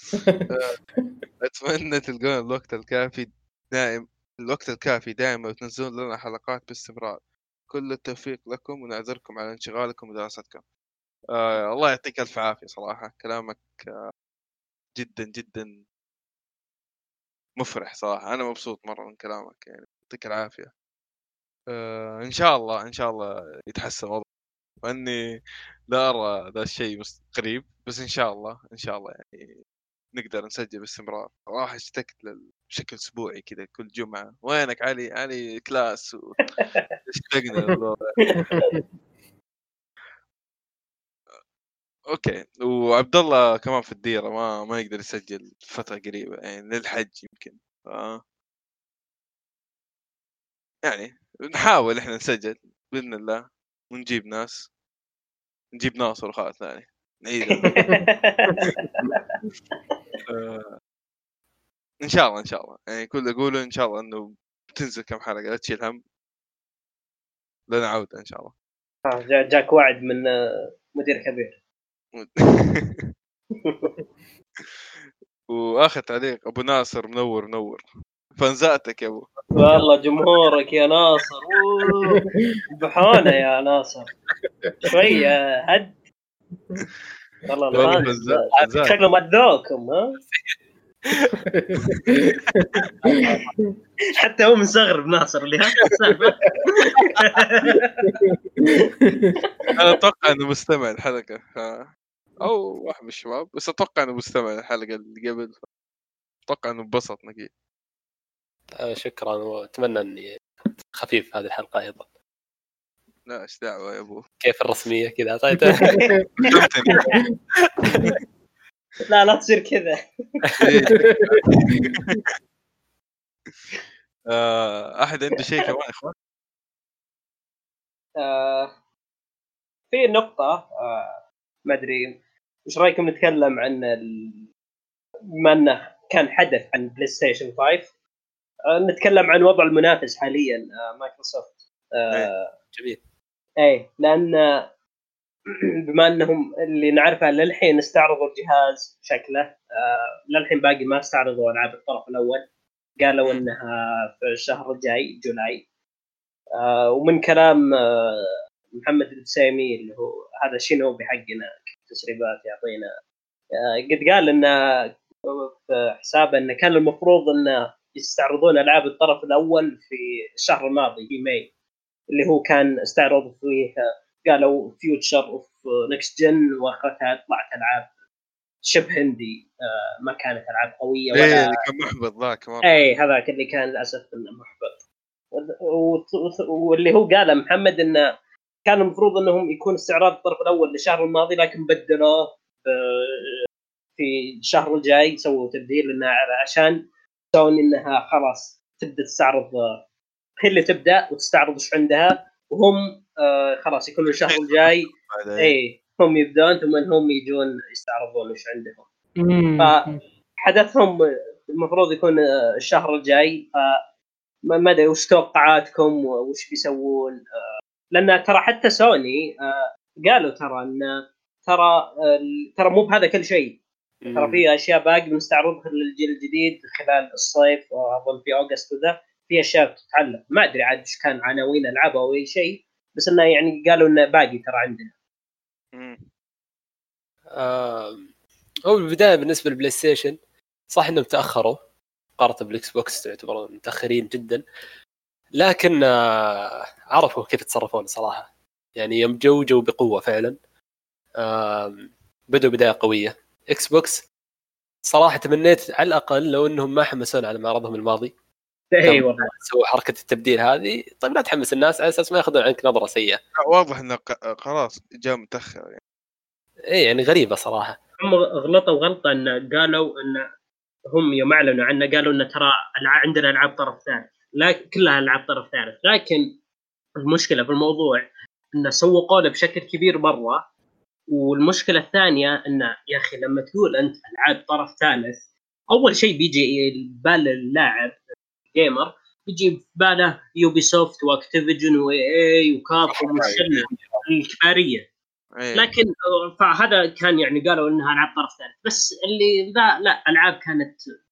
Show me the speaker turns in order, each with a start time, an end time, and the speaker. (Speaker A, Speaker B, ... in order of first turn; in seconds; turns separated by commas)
Speaker A: 0.1-0.5, Speaker B: 0.5-0.7, Speaker B: 1.4-10.6, Speaker B: 11.3-14.1, Speaker B: 14.9-15.7, Speaker B: 17.6-20.7, Speaker B: 21.7-24.2, Speaker B: 24.8-25.4, Speaker B: 25.9-29.5, Speaker B: 30.1-36.4, Speaker C: 36.5-36.8, Speaker B: 37.1-38.4, Speaker C: 38.2-38.6, Speaker A: 38.5-38.8, Speaker B: 42.1-48.2, Speaker B: 50.8-54.6, Speaker B: 55.7-57.8, Speaker C: 57.4-59.2, Speaker A: 57.7-58.0, Speaker B: 60.3-60.7, Speaker B: 62.0-66.0, Speaker B: 67.7-68.5, Speaker C: 69.0-71.5, Speaker B: 72.1-73.1, Speaker C: 73.5-73.9, Speaker B: 75.5-77.8, Speaker B: 78.4-79.8, Speaker C: 79.5-82.2, Speaker A: 82.1-82.6, Speaker C: 82.7-84.1, Speaker C: 84.8-85.9, Speaker C: 87.5-90.2, Speaker B: 87.7-89.0, Speaker D: 88.5-88.8, Speaker A: 91.5-93.7, Speaker C: 94.1-98.1, Speaker A: 98.0-99.3, Speaker B: 99.7-101.9, Speaker B: 102.4-105.6, Speaker B: 106.5-107.5, Speaker D: 108.8-112.0, Speaker B: 113.2-114.2, Speaker D: 114.4-116.0, Speaker A: 115.7-116.5, Speaker C: 115.9-117.2, Speaker B: 116.4-117.1, Speaker B: 117.8-118.1, Speaker C: 119.1-120.7, Speaker B: 120.6-122.2, Speaker A: 120.9-122.2, Speaker B: 124.3-126.1, Speaker C: 128.2-128.7, Speaker C: 129.9-132.2, Speaker C: 132.7-134.4, Speaker C: 135.4-137.9, Speaker C: 138.7-142.5, Speaker D: 142.7-143.0, Speaker C: 143.6-144.7, Speaker C: 145.5-152.5, Speaker C: 153.0-155.6, Speaker C: 156.6-162.9, Speaker C: 163.6-164.6, Speaker C: 165.3-171.5, Speaker C: 172.1-177.9, Speaker C: 178.6-181.6, Speaker B: 181.1-182.7, Speaker C: 182.6-184.8, Speaker C: 185.3-188.1, Speaker C: 188.6-193.4, Speaker C: 194.0-199.8, Speaker C: 200.4-208.8, Speaker B: 204.2-205.6, Speaker A: 209.2-210.0, Speaker C: 209.6-209.8, Speaker C: 210.4-211.0, Speaker C: 211.5-213.8, Speaker C: 214.5-217.2, Speaker C: 217.9-223.6, Speaker D: 224.0-224.4, Speaker C: 224.1-234.9, Speaker B: 235.7-236.1, Speaker D: 237.4-238.1, Speaker D: 238.7-240.2, Speaker D: 240.7-241.6, Speaker D: 242.2-244.4, Speaker D: 245.4-250.4, Speaker D: 251.2-254.1, Speaker D: 254.8-258.1, Speaker C: 258.7-259.3, Speaker D: 258.8-263.2, Speaker B: 263.4-265.8, Speaker D: 266.7-267.8, Speaker C: 268.0-270.2, Speaker C: 270.9-276.3, Speaker C: 277.0-280.4, Speaker C: 281.1-287.9, Speaker C: 288.5-294.9, Speaker D: 292.9-294.0, Speaker B: 295.4-295.7, Speaker C: 295.5-300.8